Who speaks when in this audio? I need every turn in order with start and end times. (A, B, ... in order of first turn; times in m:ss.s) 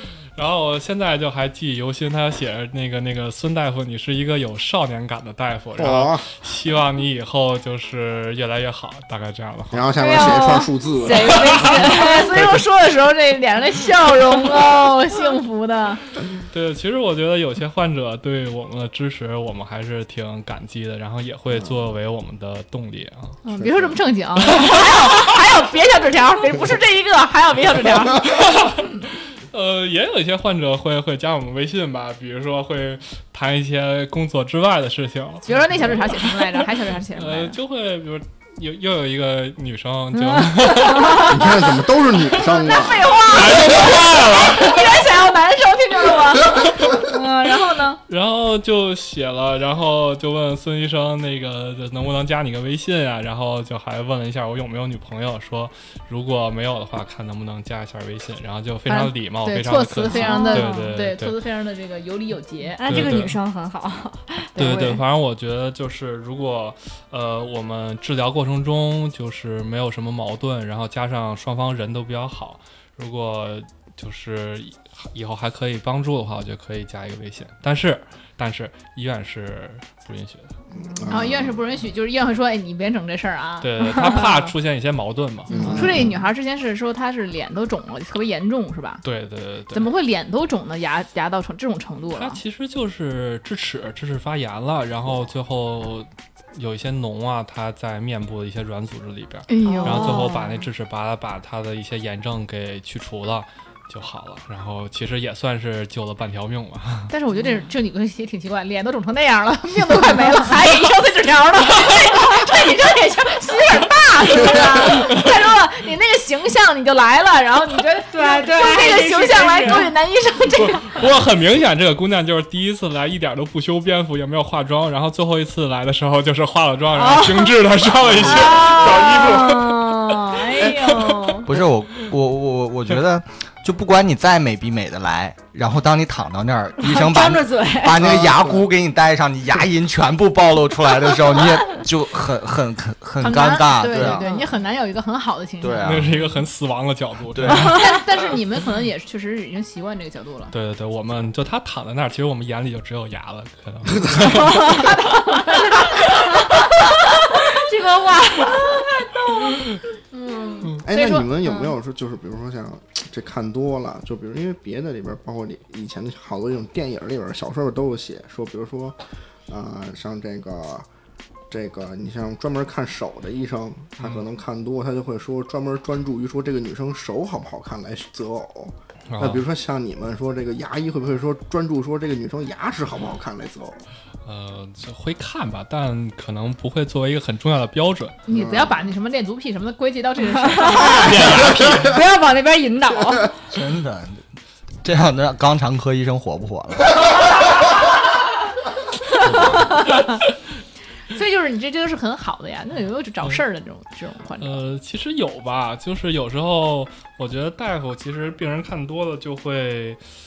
0:00.4-0:09.9 A
0:05.8-0:06.3 B
0:09.7-0:11.7 B
0:10.0-0:12.3 C
0:10.1-0:10.6 D
0:11.2-0:16.0 D
0:16.5-0:23.4 A
0:23.4-0:28.6 D
0:23.5-0:24.0 B
0:28.2-0:36.4 A
0:35.4-0:37.6 D
0:37.1-0:41.4 A
0:40.3-0:41.2 C
0:41.2-0:43.2 B
0:42.4-0:48.0 D
0:43.2-0:44.9 A
0:48.1-1:01.4 A
0:58.9-1:03.2 D
1:00.1-1:01.0 C
1:02.8-1:04.8 C
1:02.8-1:03.4 A
1:04.6-1:05.0 D
1:04.6-1:20.6 A
1:20.7-1:21.6 B
1:20.9-1:21.1 C
1:21.1-1:24.5 D
1:23.6-1:26.0 A
1:25.5-1:26.1 B
1:25.7-1:29.0 D
1:29.0-1:29.9 A
1:29.7-1:32.4 D
1:32.1-1:47.1 A
1:39.5-1:40.4 D
1:39.6-1:40.6 C
1:47.1-2:01.0 D
1:58.1-1:59.9 C
2:00.6-2:11.3 A
2:07.0-2:07.5 C
2:08.0-2:08.5 E
2:08.2-2:11.5 D
2:08.3-2:09.2 C
2:11.4-2:24.3 E
2:16.8-2:18.0 C
2:17.9-2:18.7 B
2:23.2-2:25.9 D
2:24.0-2:24.5 C
2:25.6-2:26.2 E
2:25.8-2:28.0 A
2:27.3-2:27.7 E
2:27.5-2:30.5 D
2:30.5-2:34.9 A
2:34.0-2:34.4 B
2:34.5-2:34.9 C
2:34.6-2:36.4 D
2:36.0-2:36.6 C
2:37.4-2:38.8 C
2:40.1-2:41.7 D
2:40.8-2:50.8 B
2:51.5-3:03.8 B
2:59.1-2:59.4 A
3:04.2-3:08.2 A
3:08.3-3:11.3 D
3:08.3-3:08.8 B
3:10.4-3:13.5 C
3:10.8-3:12.0 A
3:13.5-3:14.2 E
3:14.8-3:17.0 E
3:19.2-3:20.2 D
3:19.2-3:19.8 A
3:21.1-3:24.6 D
3:24.4-3:30.0 A